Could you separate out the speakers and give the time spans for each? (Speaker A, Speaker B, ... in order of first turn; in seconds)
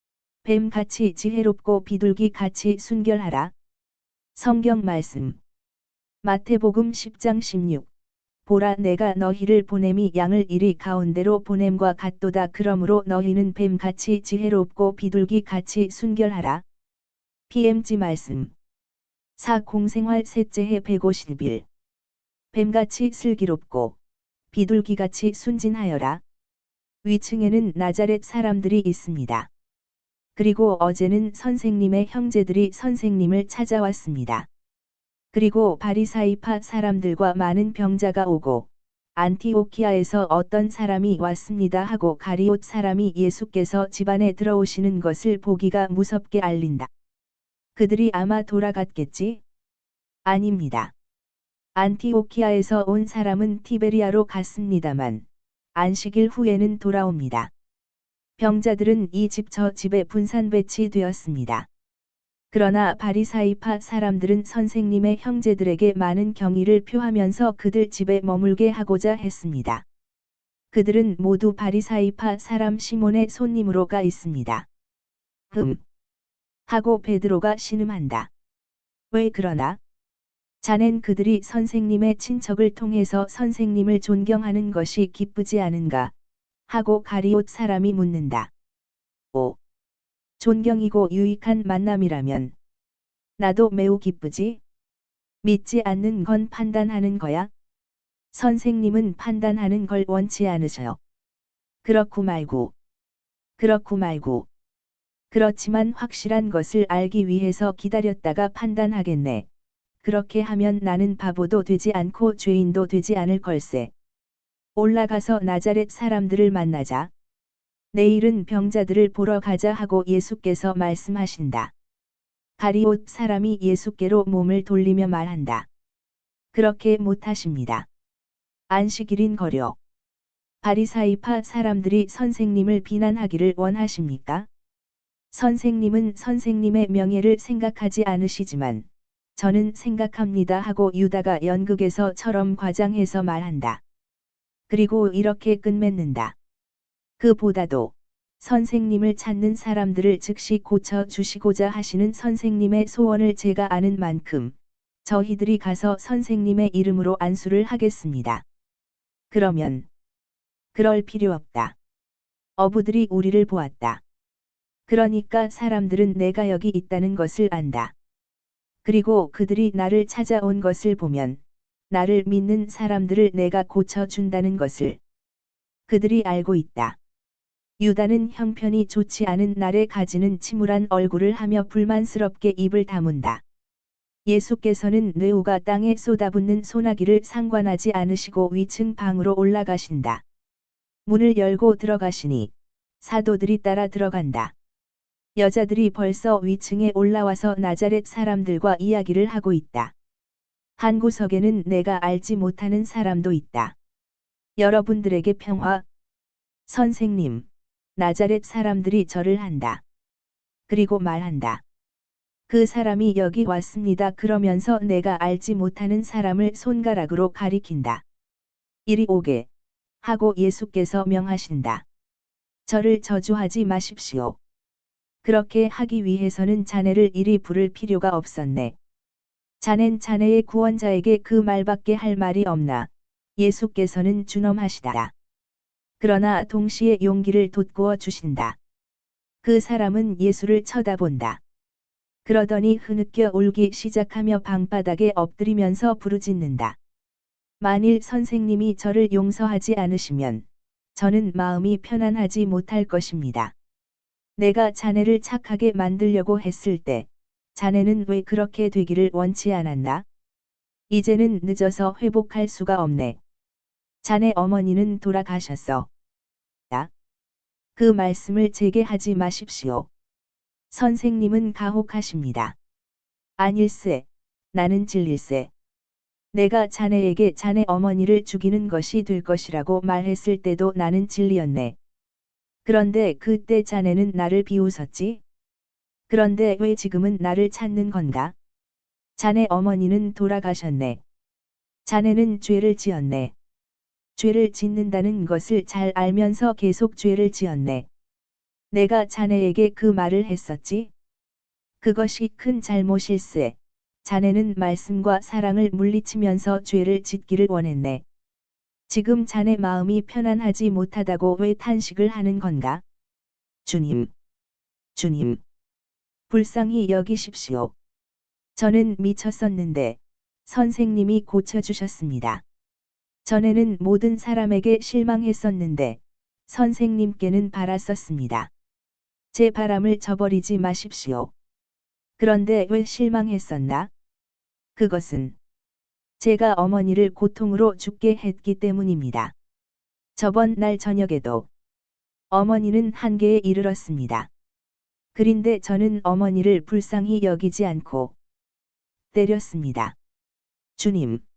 Speaker A: 0.4-3.5, 4.3-5.4, 6.2-7.9, 8.5-16.6, 17.5-18.5, 19.4-21.7, 22.5-24.0, 24.5-26.2, 27.0-29.5, 30.4-34.5, 35.3-46.9, 47.8-49.4, 50.2-50.9, 51.8-55.2, 55.8-57.5, 58.4-61.7, 62.5-69.8, 70.7-74.7, 75.5-75.8, 76.7-78.3, 79.1-79.8, 80.6-86.1, 86.7-88.5, 90.4-92.5, 93.4-94.6, 95.4-97.5, 98.3-101.0, 101.8-102.7, 103.6-104.5, 105.3-109.5, 110.0-113.9, 114.8-117.1, 117.9-121.7, 122.6-125.7, 126.5-127.9, 128.7-129.8, 130.6-134.5, 135.3-143.8, 144.7-146.4, 147.2-158.4, 159.3-159.9, 160.7-161.8, 162.6-164.0, 164.9-167.9, 168.8-171.4, 171.9-175.0, 175.9-177.0, 177.8-183.4, 184.3-190.2, 191.1-194.5, 195.4-199.9, 200.8-203.8, 204.6-205.8, 206.7-209.8, 210.7-211.6, 212.5-218.0, 218.9-219.5, 220.0-221.8, 222.7-224.4, 225.2-228.8, 229.6-235.1, 236.0-238.6, 239.4-241.4, 242.2-246.8, 247.6-253.5, 254.4-260.1, 260.9-263.2, 264.0-265.9, 267.8-269.9, 270.7-272.6, 273.4-275.5, 276.3-281.8, 282.6-285.2, 286.1-288.4, 289.2-291.0, 291.9-293.3, 294.2-297.9, 298.7-300.9, 301.8-308.0, 308.9-312.8, 313.6-314.1, 314.9-315.4, 316.3-317.7, 318.6-322.4, 323.2-328.5, 329.3-331.3, 332.2-333.9, 334.8-335.4, 336.2-339.3, 340.2-341.5, 342.3-344.3, 345.1-348.1, 349.1-349.9, 350.8-351.2